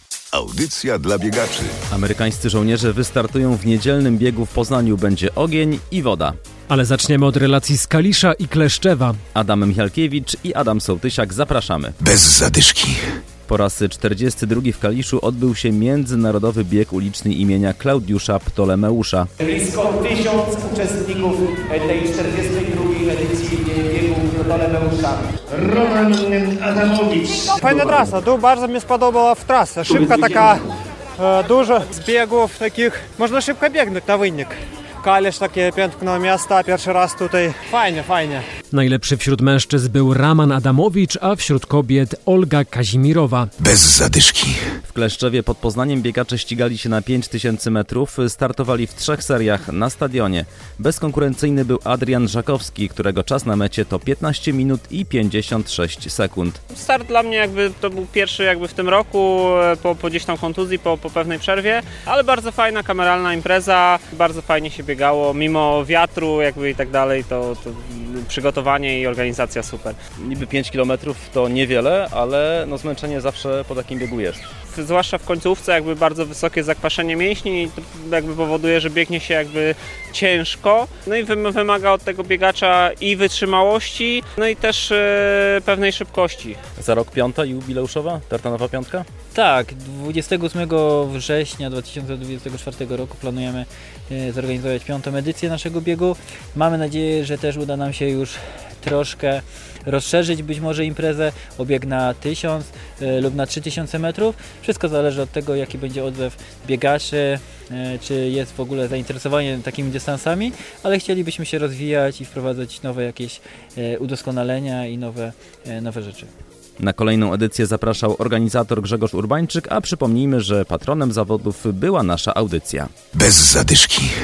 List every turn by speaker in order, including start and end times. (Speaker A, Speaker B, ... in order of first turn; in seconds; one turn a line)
Speaker A: 0.3-1.7
Speaker B: 1.9-6.3
Speaker C: 6.7-9.2
Speaker B: 9.3-11.9
Speaker A: 12.0-13.0
Speaker B: 13.5-19.3
Speaker D: 19.4-25.3
Speaker E: 25.5-28.0
Speaker F: 27.6-30.6
Speaker F: 31.2-38.4
Speaker C: 38.7-43.5
Speaker A: 43.6-44.6
Speaker B: 44.9-56.6
Speaker G: 56.7-70.0
Speaker B: 70.2-74.4
Speaker G: 74.7-86.6
Speaker B: 86.8-89.0
Speaker H: 89.3-116.3
Speaker B: 116.8-122.9
Speaker A: 123.1-124.1